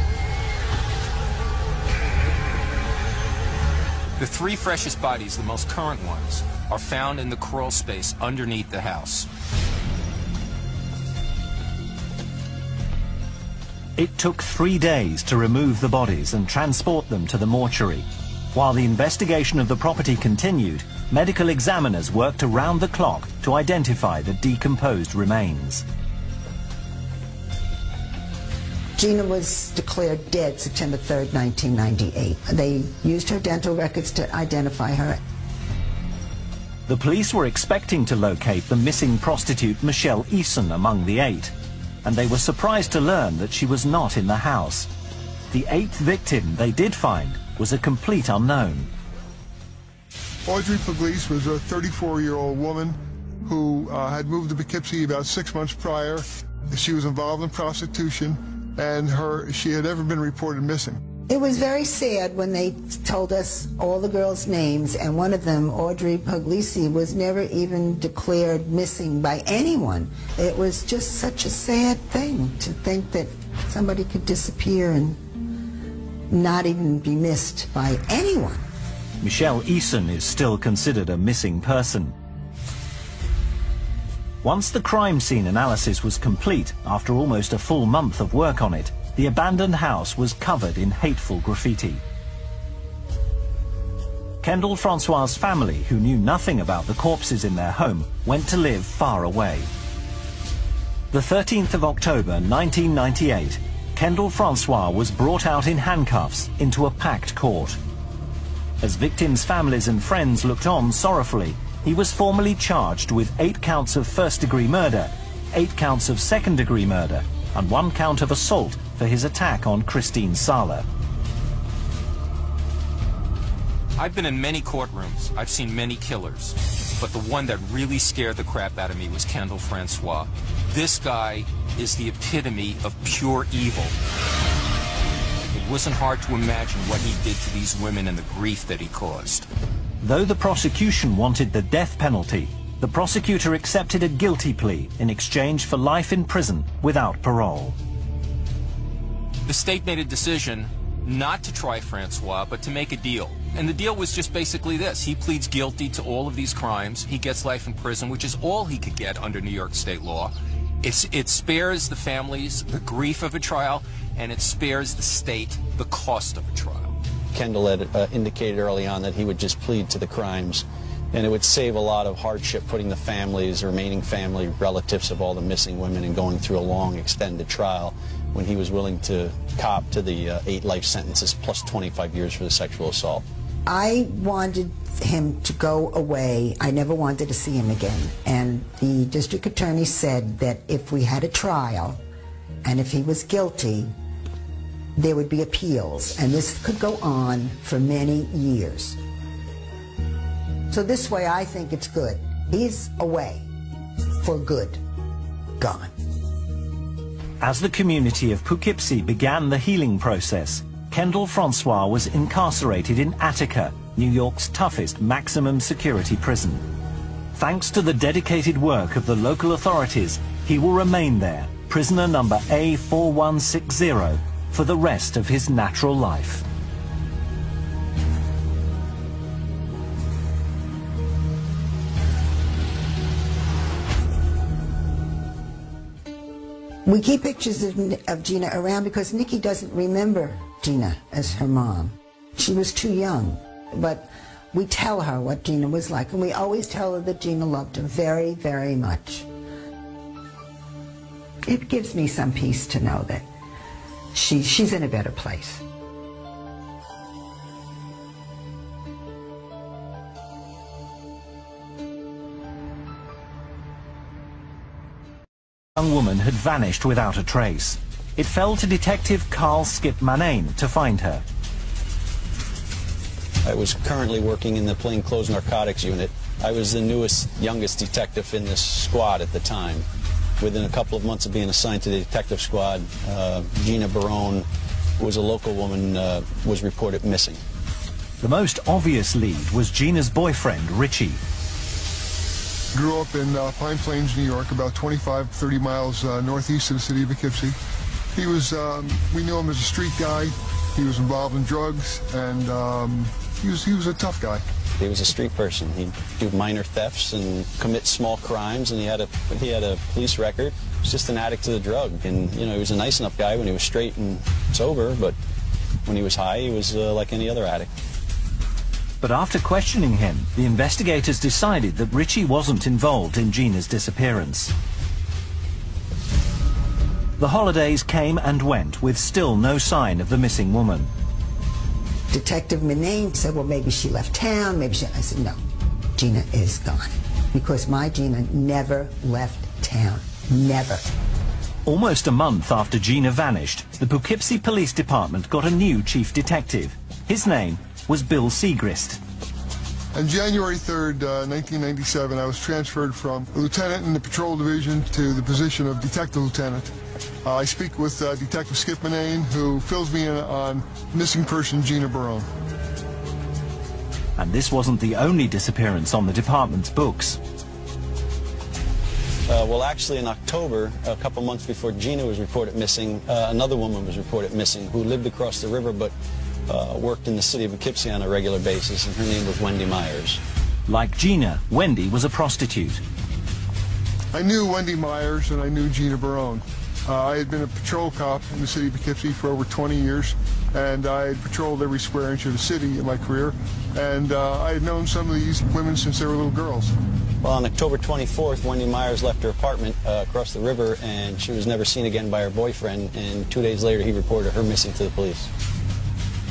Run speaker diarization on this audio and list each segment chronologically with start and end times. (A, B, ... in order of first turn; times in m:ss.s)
0:04.2-0:09.3 A
0:14.0-0:25.8 B
0:29.0-0:35.2 C
0:36.9-0:41.5 B
0:42.0-0:44.9 B
0:45.5-0:48.9 B
0:50.5-1:01.0 D
1:01.3-1:15.2 C
1:16.3-1:18.7 C
1:19.2-1:22.2 B
1:24.4-1:32.0 B
1:34.4-1:39.7 B
1:41.1-1:47.8 B
1:48.8-2:00.9 B
2:04.0-2:14.0 A
2:15.5-2:19.5 A
2:20.0-2:27.8 B
2:29.5-2:47.0 A
2:47.3-3:03.2 E
3:03.7-3:12.0 C
3:12.6-3:13.9 C
3:15.0-3:19.0 C
3:20.7-3:23.5 C
3:24.2-3:24.8 C
3:25.6-3:25.9 C
3:27.4-3:36.6 B
3:37.3-3:46.4 B
3:56.8-4:09.3 C
4:11.5-4:13.3 C
4:14.1-4:15.6 C
4:25.8-4:31.2 B
4:33.4-4:39.8 E
4:40.4-4:44.5 E
4:45.0-4:47.4 E
4:48.2-4:51.2 B
4:52.7-4:57.6 D
4:58.1-5:04.4 D
5:04.8-5:15.2 E
5:15.8-5:17.7 E
5:19.0-5:24.5 B
5:27.2-5:30.9 B
5:32.1-5:35.4 C
5:36.0-5:40.9 C
5:41.6-5:49.0 B
5:49.9-5:56.7 D
5:57.2-6:02.3 D
6:04.2-6:07.2 B
6:09.3-6:15.9 E
6:16.5-6:20.2 E
6:20.7-6:22.8 B
6:24.1-6:36.8 D
6:37.2-6:45.3 E